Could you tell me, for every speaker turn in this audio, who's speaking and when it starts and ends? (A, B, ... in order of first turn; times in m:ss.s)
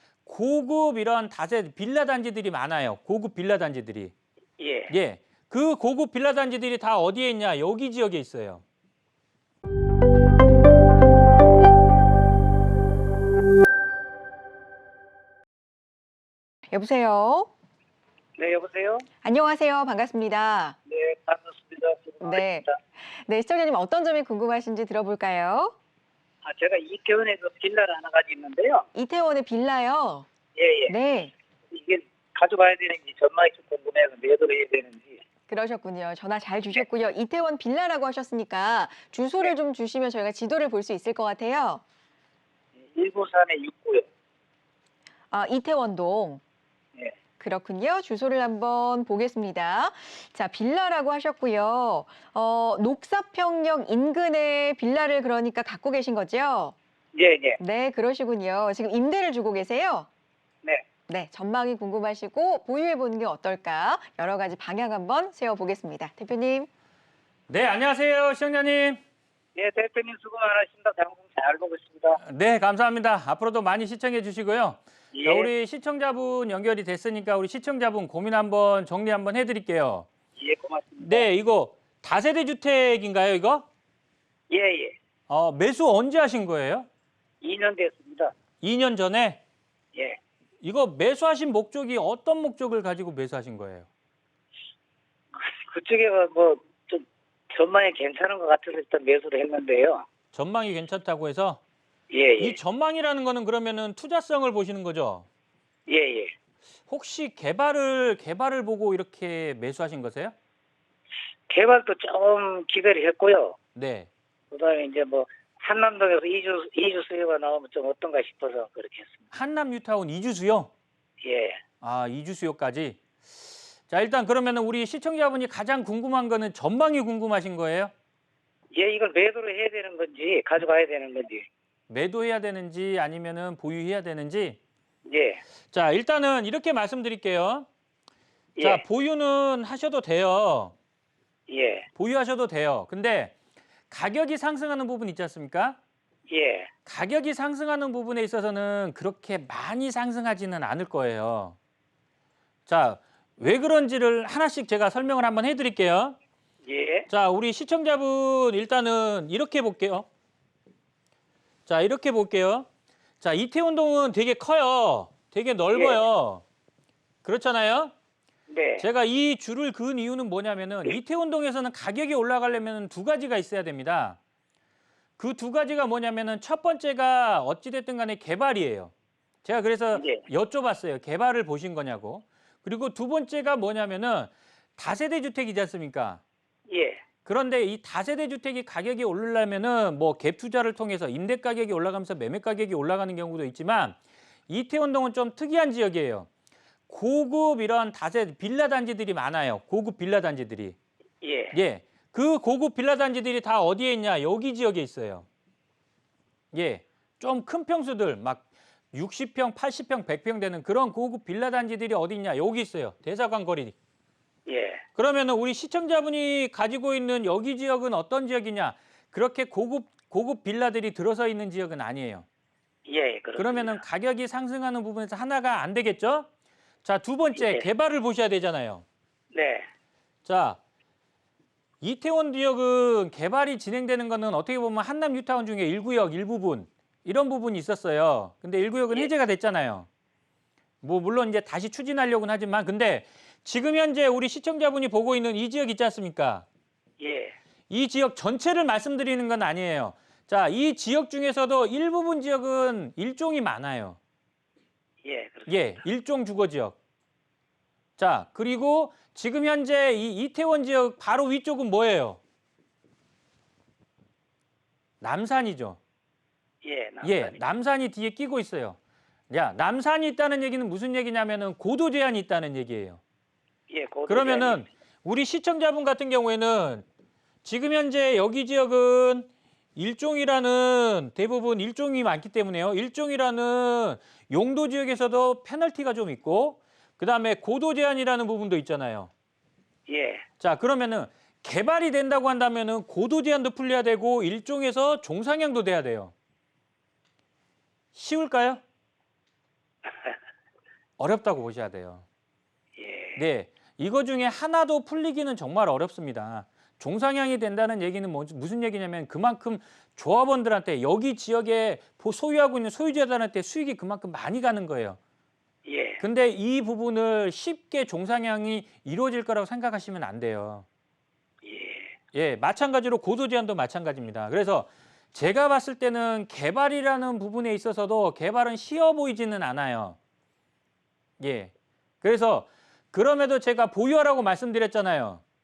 0:00.2-0:04.1 A
0:04.6-0:04.9 B
0:04.9-0:08.6 A
0:16.7-0:17.5 C
0:18.4-0:19.0 B
0:19.2-0:20.8 C
0:20.9-0:22.8 B
0:22.2-0:25.7 C
0:26.4-0:28.8 B
0:28.9-0:30.3 C
0:30.6-0:30.9 B
0:30.9-0:31.3 C
0:31.7-0:35.2 B
0:35.5-0:41.8 C
0:42.8-0:44.0 B
0:45.3-0:46.4 C
0:47.4-0:56.7 C
0:57.1-0:57.6 B
0:57.6-1:00.1 C
1:01.1-1:06.7 C
1:07.5-1:09.0 A
1:09.5-1:12.2 B
1:12.2-1:20.1 A
1:15.1-1:15.5 B
1:20.4-1:21.3 B
1:21.0-1:23.7 A
1:24.5-1:24.9 B
1:25.3-1:26.9 A
1:27.4-1:28.3 B
1:28.6-1:29.4 A
1:30.6-1:33.9 A
1:35.4-1:40.0 B
1:40.3-1:41.6 A
1:42.1-1:42.6 B
1:42.4-1:45.3 A
1:45.9-1:46.3 B
1:46.9-1:50.3 A
1:51.5-1:53.6 B
1:53.7-1:54.1 A
1:54.5-1:59.2 B
1:59.3-2:00.7 A
2:01.2-2:01.6 B
2:01.8-2:03.0 A
2:03.9-2:07.9 A
2:08.7-2:11.4 B
2:11.9-2:14.6 A
2:15.0-2:15.4 B
2:15.7-2:17.7 A
2:18.6-2:18.8 B
2:18.6-2:20.7 A
2:21.5-2:21.8 B
2:22.0-2:23.4 A
2:23.9-2:25.8 A
2:26.3-2:26.7 B
2:26.8-2:31.6 A
2:32.7-2:36.2 A
2:36.6-2:37.1 B
2:37.1-2:40.1 A
2:41.6-2:42.7 A
2:43.2-2:46.4 A
2:45.7-2:46.0 B
2:47.2-2:47.9 A
2:48.5-2:48.8 B
2:48.8-2:54.2 A
2:55.2-2:58.9 A
2:59.4-3:06.2 A
2:59.9-3:00.2 B
3:06.7-3:07.0 B
3:07.2-3:14.0 A
3:14.5-3:16.3 A
3:16.9-3:20.8 A
3:21.2-3:21.5 B
3:21.5-3:25.3 A
3:26.5-3:33.8 A
3:34.5-3:34.8 B
3:35.0-3:42.2 A
3:42.9-3:43.8 B
3:43.4-3:46.3 A
3:46.8-3:48.8 A
3:47.4-3:47.7 B
3:49.3-3:49.7 B
3:50.2-3:50.6 A
3:51.8-3:59.9 A
4:00.8-4:06.4 A
4:07.0-4:07.3 B
4:07.7-4:14.0 A
4:15.0-4:15.6 B
4:15.5-4:16.8 A
4:18.0-4:22.2 A
4:25.0-4:25.8 A
4:26.6-4:27.4 B
4:27.0-4:28.8 A
4:29.3-4:33.0 A
4:33.7-4:34.6 B
4:34.1-4:36.8 A
4:37.4-4:49.1 A
4:49.9-4:50.2 B
4:50.4-4:56.1 A
4:57.9-4:58.6 A
5:01.0-5:02.0 A
5:02.8-5:03.2 B
5:03.2-5:15.0 A
5:15.6-5:16.0 B
5:16.0-5:20.6 A
5:21.4-5:21.9 B
5:22.1-5:30.0 A
5:31.2-5:35.2 A